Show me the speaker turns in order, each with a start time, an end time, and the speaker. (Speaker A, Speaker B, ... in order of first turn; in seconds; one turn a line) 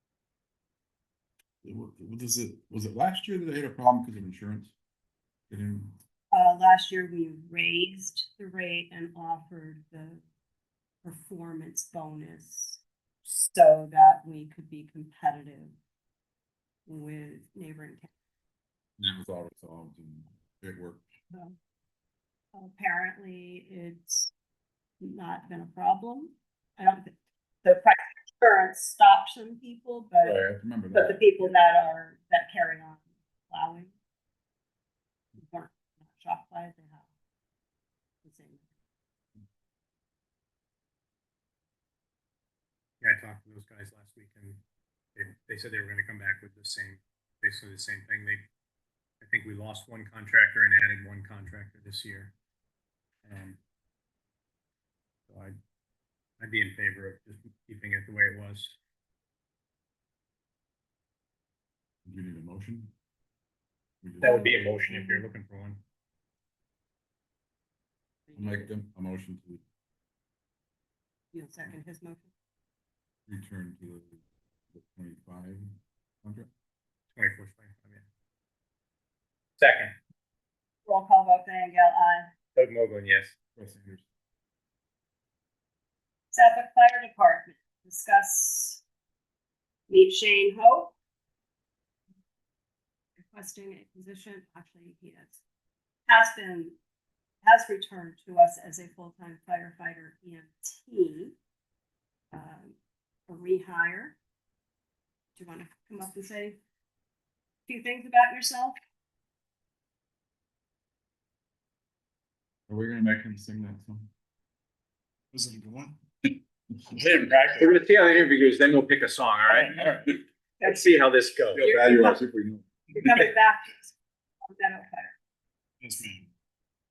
Speaker A: 1.6-4.7
Speaker A: 5.5-6.0
Speaker B: 6.3-10.2
Speaker B: 11.0-15.7
Speaker B: 16.9-18.1
Speaker A: 19.0-21.0
Speaker B: 21.3-21.6
Speaker B: 22.5-24.3
Speaker B: 25.0-33.9
Speaker A: 30.2-31.7
Speaker B: 35.4-37.1
Speaker B: 38.2-38.8
Speaker C: 43.0-44.6
Speaker C: 45.1-48.4
Speaker C: 49.2-52.3
Speaker C: 53.2-53.6
Speaker C: 55.3-55.6
Speaker C: 56.4-58.8
Speaker A: 62.0-62.9
Speaker A: 64.0-64.9
Speaker C: 64.2-65.8
Speaker B: 64.2-65.2
Speaker B: 68.3-68.7
Speaker A: 68.3-69.6
Speaker B: 71.3-72.3
Speaker A: 73.3-74.2
Speaker A: 74.7-76.5
Speaker C: 77.1-78.0
Speaker C: 79.6-79.9
Speaker B: 80.8-82.3
Speaker C: 82.5-83.3
Speaker A: 83.5-84.0
Speaker B: 86.3-88.8
Speaker B: 89.9-90.9
Speaker B: 93.2-95.4
Speaker B: 96.1-96.8
Speaker B: 97.4-101.3
Speaker B: 102.3-102.8
Speaker B: 103.3-104.2
Speaker B: 105.3-106.6
Speaker B: 107.7-108.8
Speaker A: 112.7-114.1
Speaker D: 115.3-116.0
Speaker D: 116.9-117.7
Speaker C: 117.5-119.7
Speaker B: 120.6-120.8
Speaker C: 120.6-121.6
Speaker A: 121.5-122.6
Speaker B: 121.6-122.2
Speaker B: 122.9-125.2
Speaker D: 125.8-126.3